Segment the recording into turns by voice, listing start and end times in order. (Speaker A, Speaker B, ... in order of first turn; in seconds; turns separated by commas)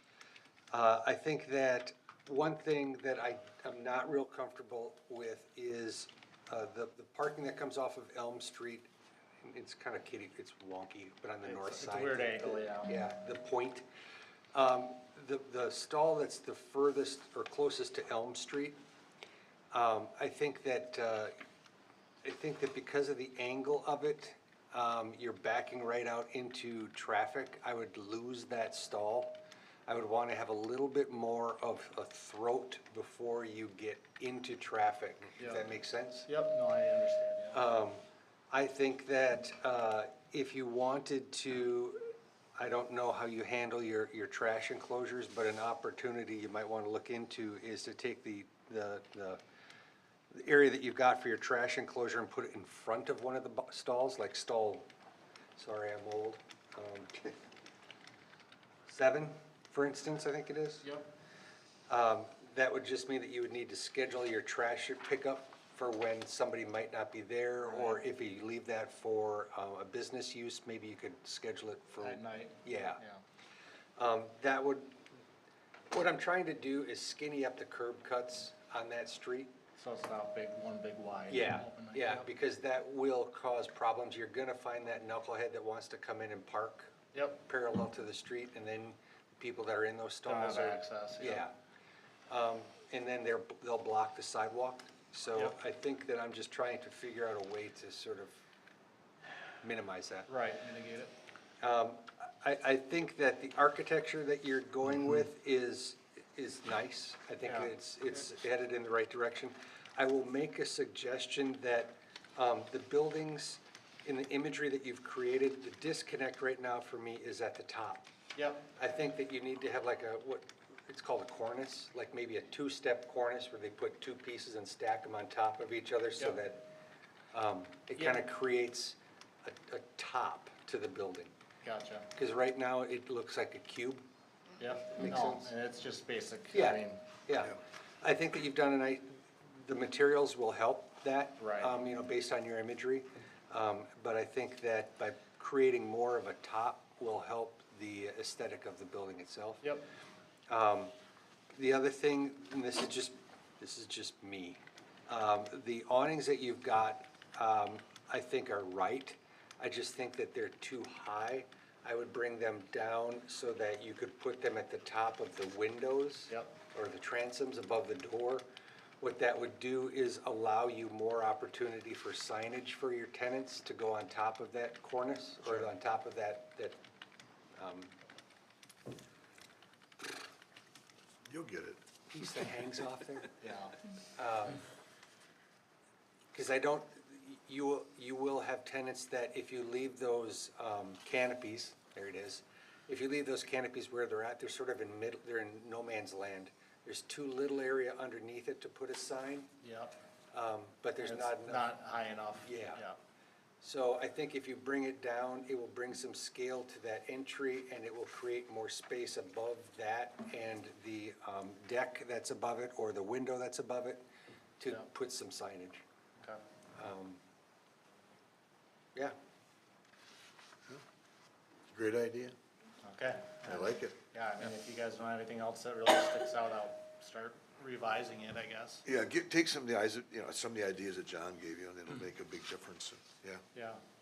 Speaker A: 0.7-8.9, Speaker A: 9.4-13.8, Speaker B: 11.4-12.9, Speaker A: 14.5-18.8, Speaker A: 19.7-21.3, Speaker A: 22.2-36.3, Speaker B: 35.4-35.7, Speaker B: 36.2-37.6, Speaker A: 37.5-49.4, Speaker A: 50.3-54.9, Speaker A: 55.5-57.3, Speaker A: 58.9-60.9, Speaker B: 60.8-61.1, Speaker A: 61.9-73.0, Speaker B: 67.6-68.0, Speaker B: 72.0-73.2, Speaker A: 74.0-75.0, Speaker A: 75.9-79.5, Speaker B: 79.8-82.3, Speaker A: 81.3-91.5, Speaker B: 87.1-87.4, Speaker B: 90.2-91.4, Speaker A: 92.3-98.4, Speaker A: 99.6-100.3, Speaker B: 100.3-101.1, Speaker A: 101.6-118.1, Speaker B: 107.4-107.7, Speaker B: 118.3-118.7, Speaker A: 118.7-126.7, Speaker A: 127.3-131.3, Speaker B: 128.0-128.2, Speaker B: 131.6-132.1, Speaker A: 132.1-134.0, Speaker B: 134.6-137.0, Speaker A: 134.9-135.5, Speaker A: 136.5-149.7, Speaker B: 141.4-141.7, Speaker B: 149.6-149.9, Speaker A: 150.5-150.9, Speaker A: 151.5-168.4, Speaker B: 166.3-166.5, Speaker A: 169.0-176.8, Speaker A: 177.5-177.9, Speaker C: 181.3-181.8, Speaker A: 182.1-183.4, Speaker B: 183.4-183.8, Speaker A: 184.2-184.6, Speaker A: 186.3-199.5, Speaker B: 199.6-200.0, Speaker A: 200.3-201.7, Speaker B: 201.0-203.0, Speaker A: 202.4-202.8, Speaker A: 203.6-214.0, Speaker A: 214.6-215.8, Speaker A: 216.7-217.2, Speaker C: 221.7-222.3, Speaker B: 222.8-228.8, Speaker C: 223.4-223.9, Speaker C: 228.8-233.4, Speaker B: 233.5-233.8